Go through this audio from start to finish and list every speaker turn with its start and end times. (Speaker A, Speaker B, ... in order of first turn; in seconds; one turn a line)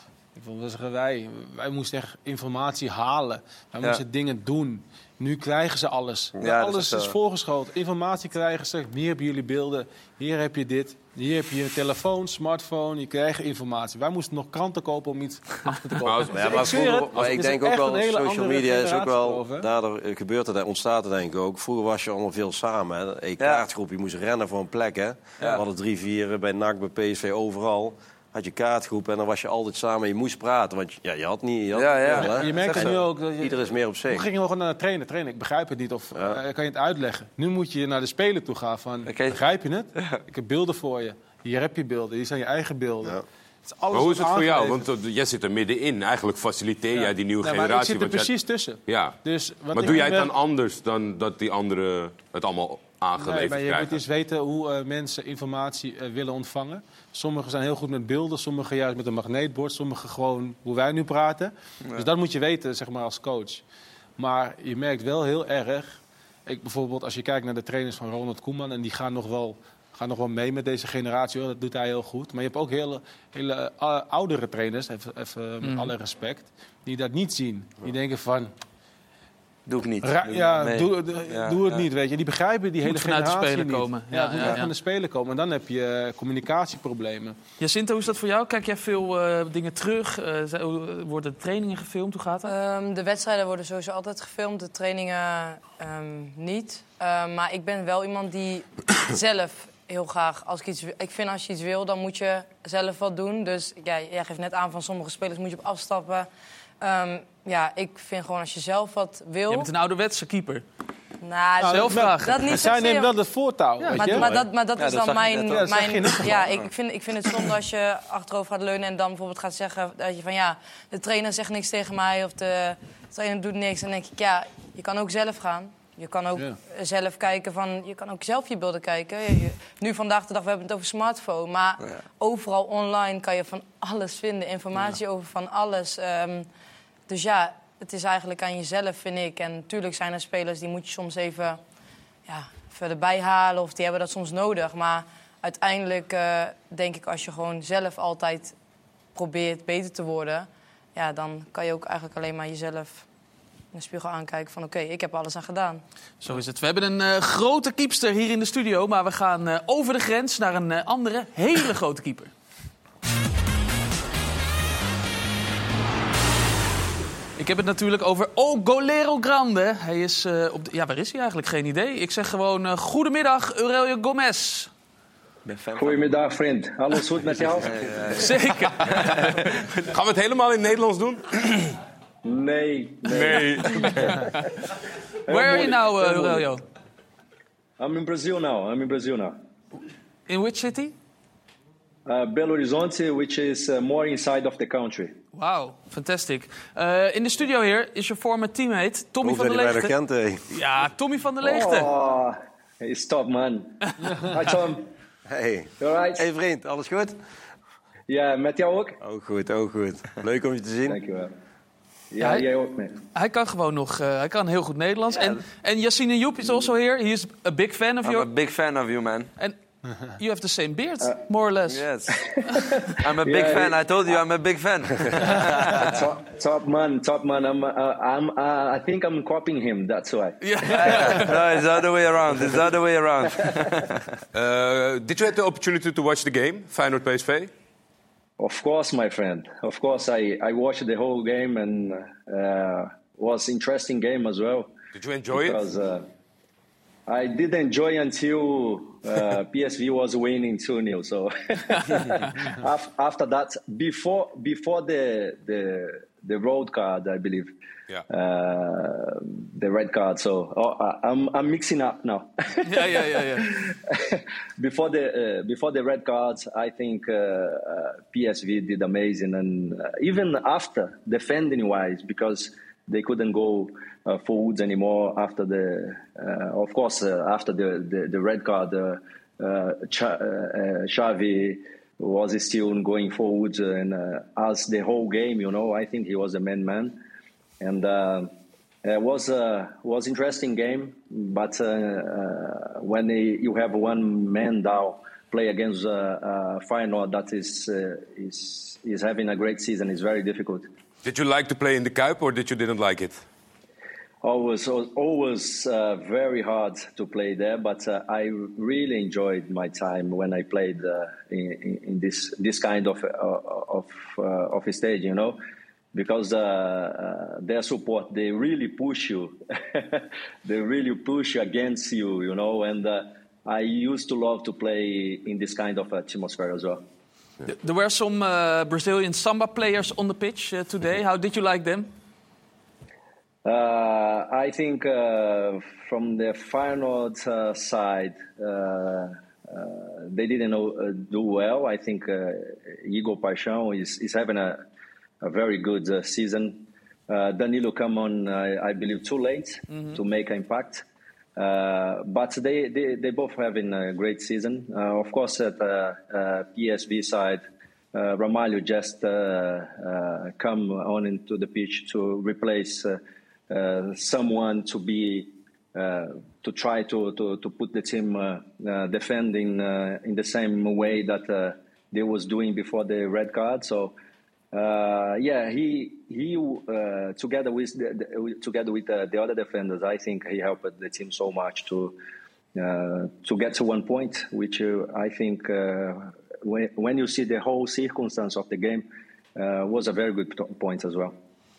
Speaker A: 0.3-19.7
Speaker B: 6.3-7.2
Speaker C: 16.0-16.6
Speaker D: 16.3-34.3
Speaker B: 23.4-23.7
Speaker B: 31.7-33.0
Speaker A: 32.1-44.8
Speaker D: 36.1-36.4
Speaker B: 39.0-39.4
Speaker B: 39.9-40.2
Speaker C: 43.9-49.2
Speaker A: 46.9-50.3
Speaker C: 49.7-54.0
Speaker A: 53.2-63.6
Speaker B: 61.8-62.1
Speaker A: 64.2-78.5
Speaker E: 75.6-75.9
Speaker B: 79.7-81.8
Speaker A: 80.0-87.4
Speaker E: 82.8-84.7
Speaker E: 87.6-92.5
Speaker F: 92.5-106.3
Speaker F: 106.8-109.7
Speaker E: 109.5-110.6
Speaker F: 111.2-113.1
Speaker A: 111.6-114.3
Speaker E: 111.6-112.4
Speaker E: 113.8-114.2
Speaker F: 113.9-136.5
Speaker B: 114.0-116.7
Speaker A: 115.5-116.3
Speaker F: 137.1-141.6
Speaker F: 142.2-148.6
Speaker F: 149.1-153.0
Speaker F: 153.7-155.8
Speaker E: 156.2-162.3
Speaker E: 167.4-174.7
Speaker B: 175.4-176.1
Speaker G: 175.8-177.7
Speaker B: 177.6-179.9
Speaker E: 178.2-179.5
Speaker C: 179.9-181.4
Speaker G: 182.2-184.4
Speaker C: 183.1-184.2
Speaker E: 183.7-184.2
Speaker G: 185.3-186.5
Speaker E: 185.3-186.6
Speaker G: 187.8-189.3
Speaker E: 190.3-190.9
Speaker G: 192.1-195.1
Speaker E: 195.3-199.9
Speaker D: 199.2-200.4
Speaker E: 200.5-201.9
Speaker G: 201.4-204.9
Speaker D: 205.3-207.2
Speaker G: 205.8-206.2
Speaker G: 208.1-209.0
Speaker D: 209.0-211.0
Speaker G: 210.8-211.3
Speaker G: 212.1-212.9
Speaker E: 212.2-212.4
Speaker E: 213.1-218.3
Speaker B: 215.1-215.4
Speaker B: 218.0-219.3
Speaker E: 220.1-221.8
Speaker B: 221.7-222.1
Speaker G: 222.2-223.8
Speaker B: 223.0-226.0
Speaker G: 225.7-231.3
Speaker E: 230.4-231.3
Speaker B: 230.9-234.0
Speaker C: 234.3-237.5
Speaker G: 238.4-244.7
Speaker C: 244.9-245.6
Speaker G: 245.3-246.1
Speaker G: 247.1-257.5
Speaker E: 251.9-252.3
Speaker G: 258.1-287.0
Speaker E: 262.6-263.5
Speaker G: 287.6-288.3
Speaker G: 288.8-300.7
Speaker C: 301.0-303.2
Speaker G: 304.2-315.4
Speaker G: 315.9-326.8
Speaker E: 327.4-331.9
Speaker G: 333.4-344.6
Speaker G: 345.2-350.8
Speaker E: 349.7-350.0
Speaker G: 351.4-357.4
Speaker G: 357.9-363.0
Speaker G: 363.5-373.9
Speaker G: 374.5-381.9
Speaker G: 382.5-388.8
Speaker G: 389.4-391.1